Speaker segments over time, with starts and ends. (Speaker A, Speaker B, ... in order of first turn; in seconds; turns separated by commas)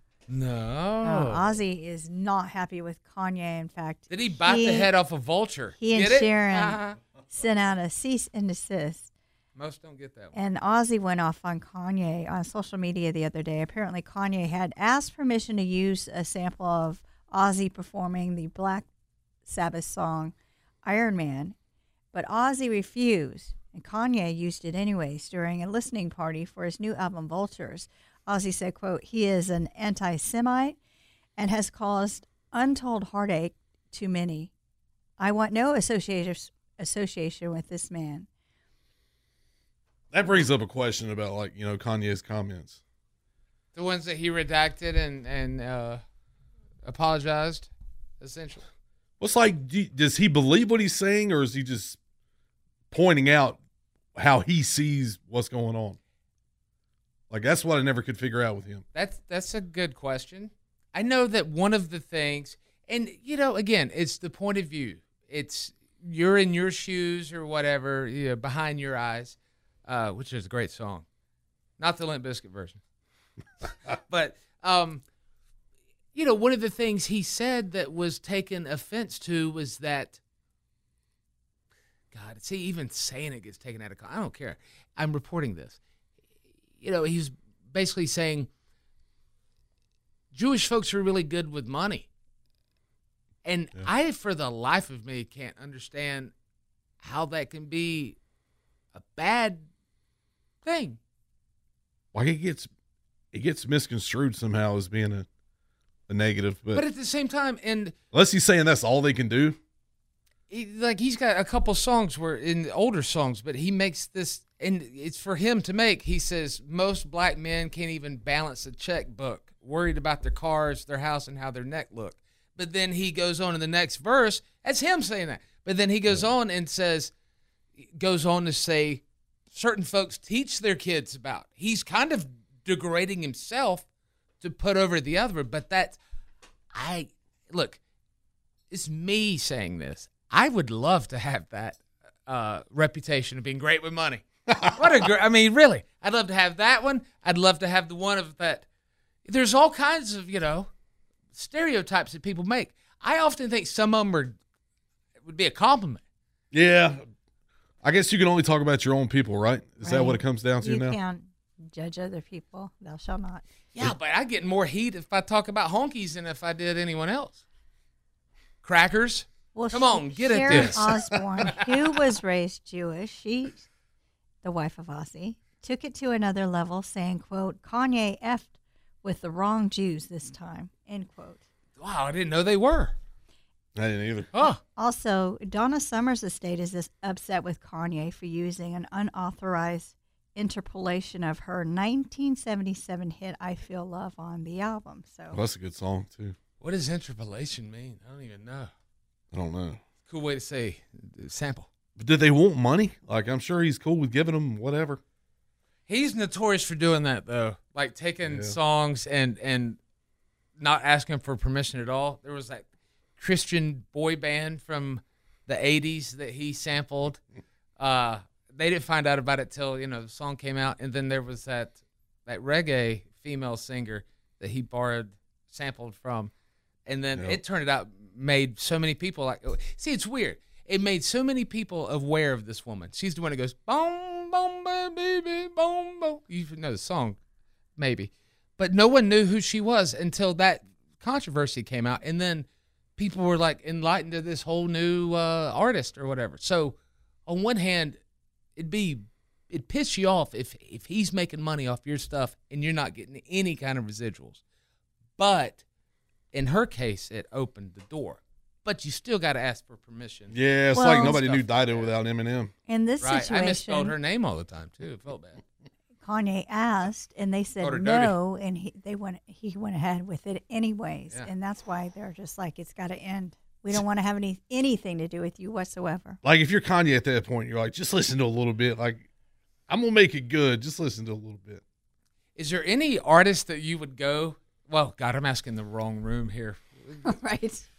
Speaker A: 0.3-1.6, Speaker B: 1.0-4.9, Speaker A: 4.1-7.0, Speaker B: 5.8-9.1, Speaker A: 9.6-10.3, Speaker B: 10.3-18.9, Speaker B: 19.5-21.6, Speaker B: 22.1-30.8, Speaker B: 31.4-34.5, Speaker B: 35.2-38.3, Speaker C: 40.1-42.8, Speaker A: 43.7-46.0, Speaker A: 46.8-48.7, Speaker C: 49.2-52.0, Speaker C: 52.9-53.6, Speaker C: 54.1-56.0, Speaker C: 57.3-58.8, Speaker A: 58.9-71.1, Speaker A: 71.8-72.8, Speaker A: 74.1-75.0, Speaker A: 76.1-80.2, Speaker A: 82.1-85.8, Speaker A: 86.8-88.5, Speaker A: 90.3-92.1, Speaker A: 93.5-96.3, Speaker A: 97.0-98.2, Speaker A: 98.9-99.7, Speaker A: 100.6-101.0, Speaker C: 102.1-102.7, Speaker C: 103.3-105.3, Speaker C: 106.1-106.8, Speaker A: 106.7-108.0, Speaker C: 108.1-109.6, Speaker A: 110.5-127.1, Speaker A: 127.8-133.9, Speaker A: 134.4-136.0, Speaker A: 136.7-137.8, Speaker A: 138.7-148.7, Speaker A: 149.2-150.7, Speaker A: 151.3-154.4, Speaker A: 155.2-156.0, Speaker C: 156.5-157.1, Speaker C: 157.8-161.0, Speaker B: 159.8-163.4, Speaker A: 163.7-167.4, Speaker A: 168.6-171.0, Speaker B: 169.5-173.7, Speaker C: 170.5-170.8, Speaker B: 174.4-181.4, Speaker A: 181.8-182.9, Speaker C: 183.8-184.3, Speaker A: 184.3-184.6, Speaker B: 184.8-195.4, Speaker C: 195.3-196.3, Speaker A: 196.6-198.7, Speaker C: 199.3-199.8, Speaker A: 200.1-201.7, Speaker C: 202.0-205.0, Speaker A: 205.9-209.8, Speaker C: 208.2-208.6, Speaker A: 210.6-212.7, Speaker A: 213.2-217.2, Speaker A: 217.8-226.3, Speaker A: 226.9-237.2, Speaker A: 237.8-246.8, Speaker A: 247.3-248.0, Speaker A: 248.6-254.4, Speaker A: 255.2-255.6, Speaker A: 256.3-260.4, Speaker C: 260.3-262.5, Speaker B: 260.7-261.2, Speaker A: 260.9-261.9, Speaker B: 262.7-263.9, Speaker A: 263.0-265.4, Speaker B: 266.0-276.2, Speaker A: 267.6-268.2, Speaker C: 276.2-279.1, Speaker C: 279.7-281.6, Speaker A: 282.4-287.1, Speaker B: 287.1-287.6